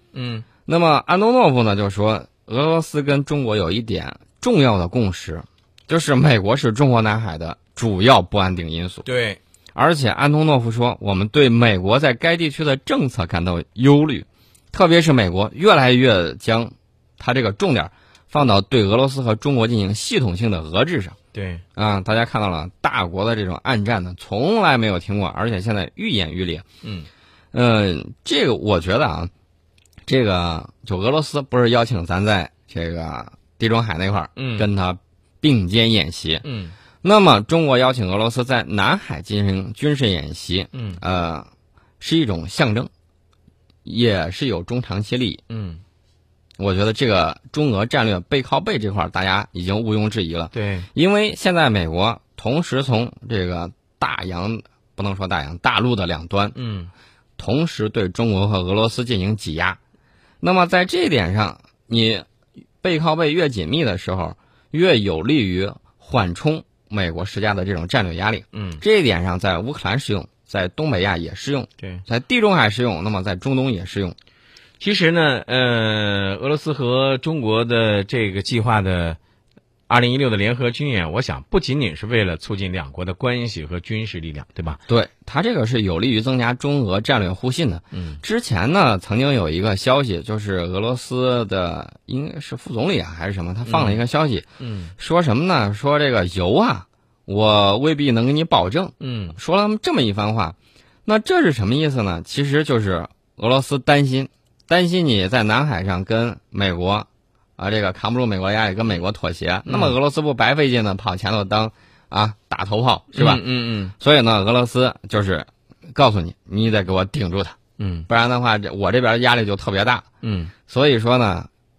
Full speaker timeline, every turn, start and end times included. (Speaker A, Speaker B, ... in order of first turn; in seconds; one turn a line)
Speaker A: 0.1-0.5
Speaker B: 0.7-9.1
Speaker A: 9.1-9.4
Speaker B: 9.8-21.2
Speaker A: 21.3-21.6
Speaker B: 21.8-26.6
Speaker A: 26.8-27.1
Speaker B: 27.5-29.3
Speaker B: 30.1-36.4
Speaker A: 34.4-34.7
Speaker A: 36.4-36.8
Speaker B: 37.0-41.5
Speaker A: 40.7-41.0
Speaker B: 42.0-42.9
Speaker B: 43.9-45.4
Speaker A: 45.5-45.8
Speaker B: 46.6-56.6
Speaker A: 50.5-50.9
Speaker A: 56.5-56.9
Speaker B: 57.4-59.8
Speaker B: 60.4-62.2
Speaker B: 62.8-74.2
Speaker A: 68.5-68.8
Speaker A: 74.8-79.2
Speaker A: 79.9-84.8
Speaker B: 84.9-94.5
Speaker A: 87.9-88.2
Speaker A: 93.7-94.0
Speaker A: 94.6-94.9
Speaker B: 95.0-107.1
Speaker A: 99.0-99.4
Speaker B: 107.6-113.4
Speaker A: 109.7-110.0
Speaker A: 113.1-114.0
Speaker B: 114.0-117.6
Speaker A: 117.8-118.1
Speaker B: 118.1-120.1
Speaker A: 120.2-120.5
Speaker B: 120.7-121.5